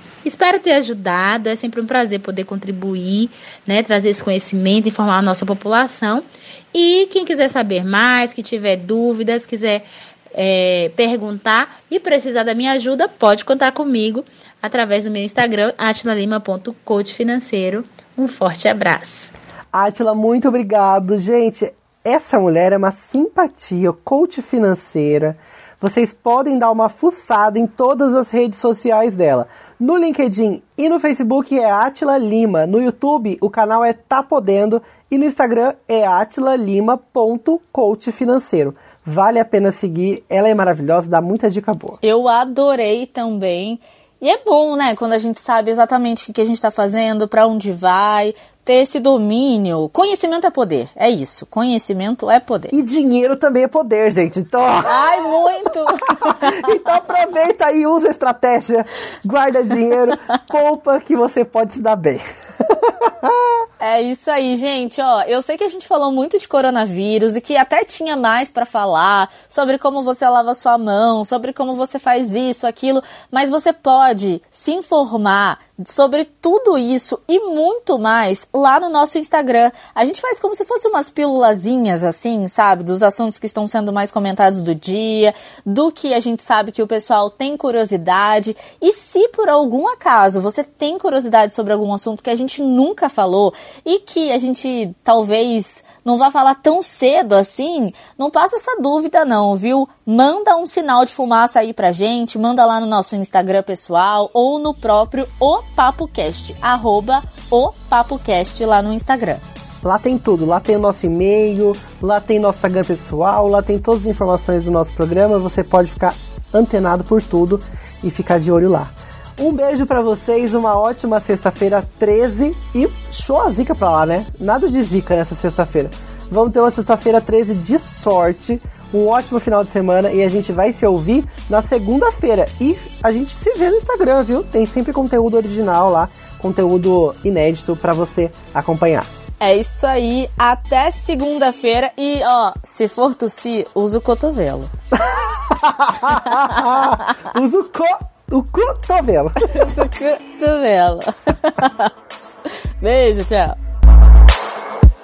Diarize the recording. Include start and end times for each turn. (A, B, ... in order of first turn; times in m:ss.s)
0:00.2-0:19.3 A
0:19.7-0:42.0 B
0:42.0-0:52.8 C
0:52.7-1:02.2 B
0:54.9-0:56.7 C
1:02.8-1:03.4 B
1:03.8-1:49.4 C
1:49.8-2:19.1 B
2:19.4-2:24.7 C
2:25.0-2:29.7 B
2:26.3-2:26.9 C
2:29.4-2:31.9 C
2:32.8-2:33.6 C